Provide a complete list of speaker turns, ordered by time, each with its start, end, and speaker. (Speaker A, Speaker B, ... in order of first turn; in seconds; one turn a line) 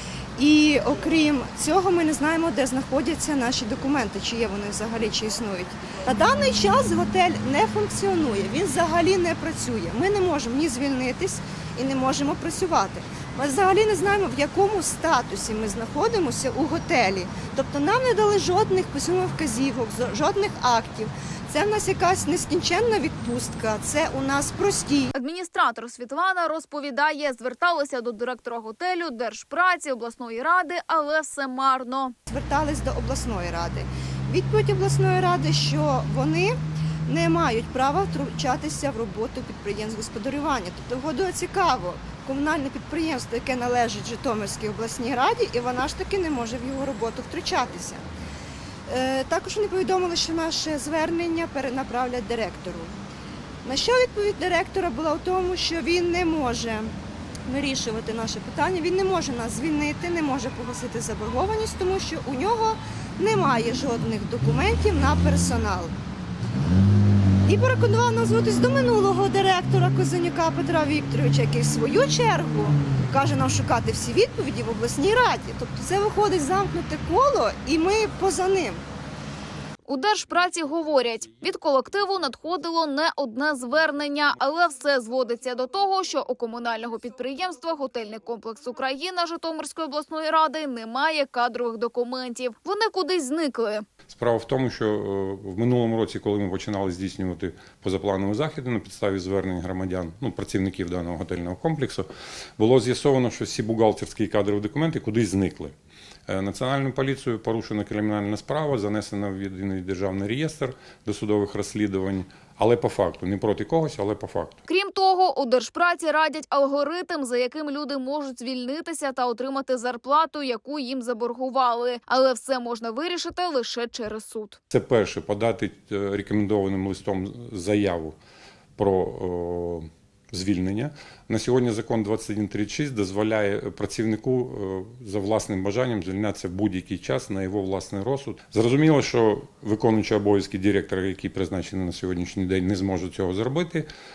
Speaker A: 0.4-25.1
Speaker B: 25.1-32.1
Speaker A: 32.3-48.0
Speaker A: 48.9-52.9
Speaker A: 53.6-56.9
Speaker A: 57.5-65.9
Speaker A: 67.5-78.8
Speaker B: 79.9-93.8
Speaker C: 94.1-105.8
Speaker C: 106.3-114.6
Speaker B: 114.7-124.6
Speaker C: 124.7-128.2
Speaker C: 128.8-143.9